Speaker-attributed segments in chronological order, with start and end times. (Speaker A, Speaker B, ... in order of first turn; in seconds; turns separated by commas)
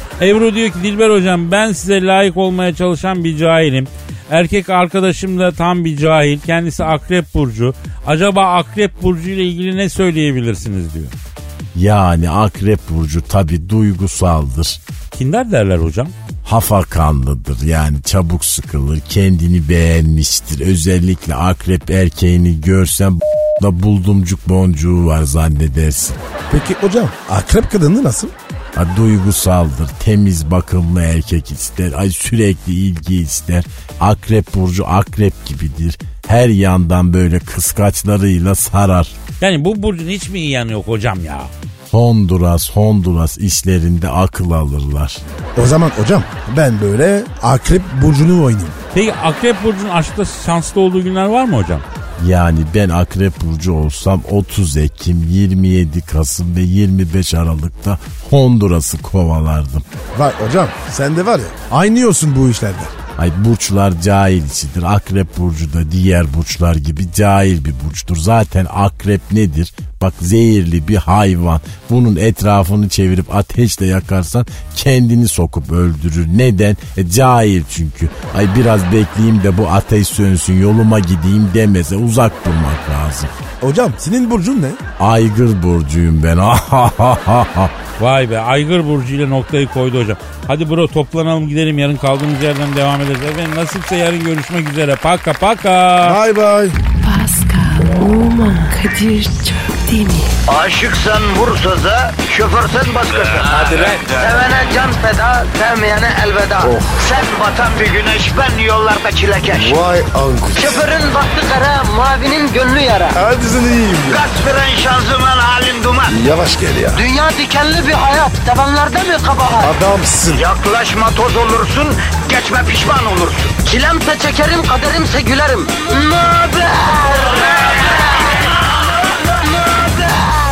Speaker A: 0.2-11.2, Speaker B: 11.7-14.8, Speaker A: 15.1-16.1, Speaker B: 16.4-26.2, Speaker C: 26.5-28.3, Speaker B: 28.8-39.1, Speaker A: 39.4-41.5, Speaker B: 41.9-45.2, Speaker C: 45.5-48.8, Speaker A: 48.9-51.9, Speaker B: 52.2-59.9, Speaker C: 60.1-63.0, Speaker B: 63.2-83.3, Speaker C: 83.6-84.8, Speaker B: 85.0-87.7, Speaker A: 88.0-96.2, Speaker C: 96.0-96.8, Speaker D: 97.0-100.3, Speaker E: 100.5-109.8, Speaker A: 103.5-104.3, Speaker C: 106.6-107.0, Speaker C: 109.5-110.8, Speaker E: 110.5-113.2, Speaker C: 113.1-114.2, Speaker E: 114.1-116.2, Speaker C: 116.1-117.0, Speaker E: 116.9-119.7, Speaker C: 119.6-120.5, Speaker E: 120.3-128.0, Speaker E: 129.6-129.9